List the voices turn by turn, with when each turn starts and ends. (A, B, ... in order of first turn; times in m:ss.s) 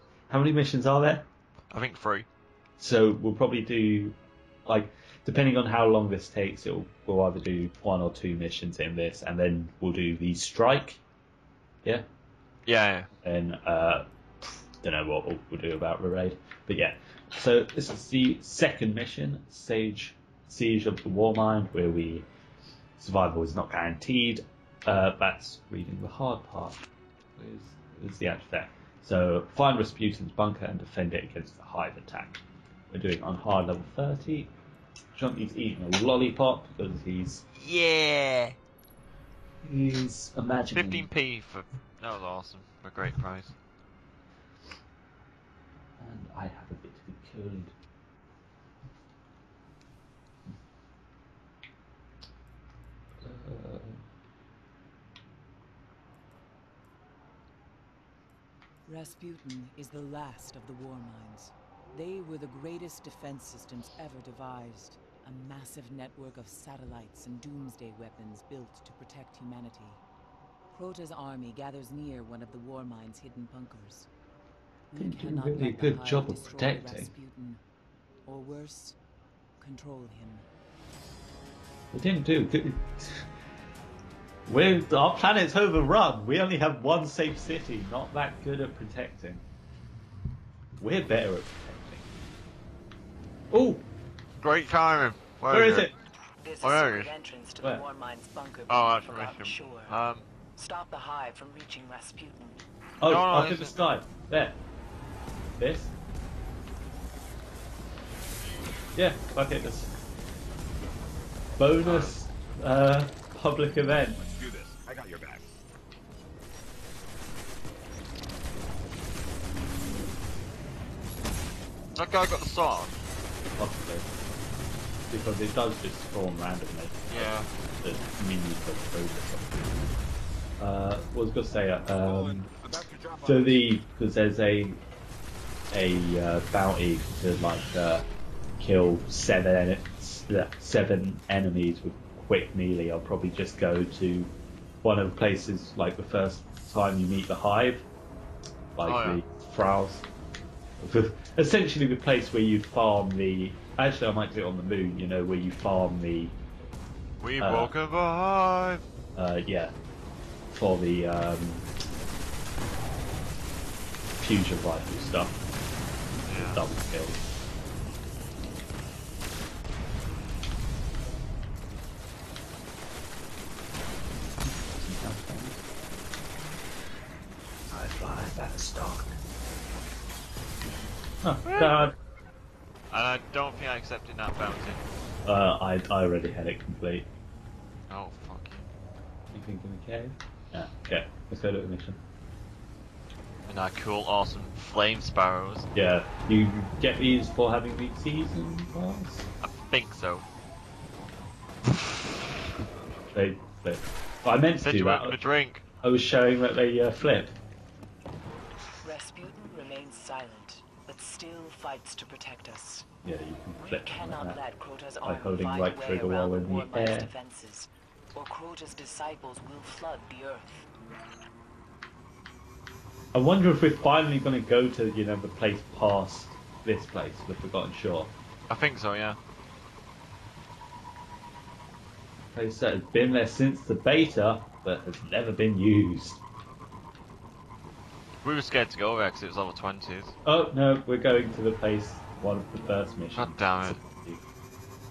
0:00.3-0:01.3 A
0:01.7-0:02.3 B
0:02.8-0:11.0 A
0:12.6-0:13.1 B
0:13.2-0:22.2 A
0:23.0-0:26.8 A
0:27.4-0:34.5 A
0:35.2-0:37.4 A
0:37.6-0:38.6 B
0:39.6-0:41.1 A
0:40.7-0:43.5 B
0:46.0-0:47.7 A
0:53.2-0:54.0 A
0:58.8-1:10.0 C
1:10.7-1:14.1 C
1:14.9-1:17.6 C
1:15.0-1:17.1 A
1:18.2-1:19.0 C
1:19.6-1:20.5 C
1:21.9-1:23.3 A
1:24.5-1:29.4 A
1:30.8-1:32.1 A
1:33.5-1:33.8 A
1:34.4-1:35.9 B
1:35.5-1:35.9 A
1:36.4-1:40.0 C
1:36.6-1:37.1 B
1:38.7-1:40.3 B
1:40.6-1:42.6 C
1:43.0-1:44.6 A
1:43.0-1:43.8 B
1:45.6-1:45.9 A
1:49.0-1:49.9 A
1:51.6-1:54.2 A
1:51.8-1:52.1 B
2:01.9-2:03.0 B
2:03.6-2:04.1 A
2:05.1-2:09.6 A
2:07.1-2:07.5 B
2:10.6-2:12.5 A
2:13.1-2:14.8 A
2:15.7-2:18.1 A
2:18.6-2:24.3 A
2:24.8-2:27.8 A
2:28.7-2:30.0 A
2:28.8-2:29.2 B
2:30.8-2:36.4 A
2:37.2-2:38.8 B
2:37.4-2:37.7 A
2:39.2-2:39.7 A
2:40.5-2:41.7 A
2:44.2-2:45.4 A
2:46.2-2:46.6 B
2:46.4-2:47.2 A
2:54.4-2:55.6 A
2:57.7-2:59.1 A
3:01.2-3:01.9 A
3:01.4-3:01.9 B
3:02.9-3:04.8 B
3:05.2-3:07.1 A
3:07.9-3:08.7 B
3:09.3-3:12.0 A
3:13.5-3:15.7 B
3:15.7-3:19.3 A
3:19.4-3:20.2 B
3:23.1-3:25.2 A
3:24.6-3:25.6 B
3:25.8-3:27.3 A
3:28.8-3:32.9 C
3:33.0-3:34.4 A
3:33.6-3:40.7 C
3:35.0-3:37.1 A
3:43.1-3:48.1 A
3:48.5-3:49.2 B
3:52.3-3:56.2 A
3:58.2-4:00.1 B
4:00.2-4:04.2 A
4:03.2-4:03.8 B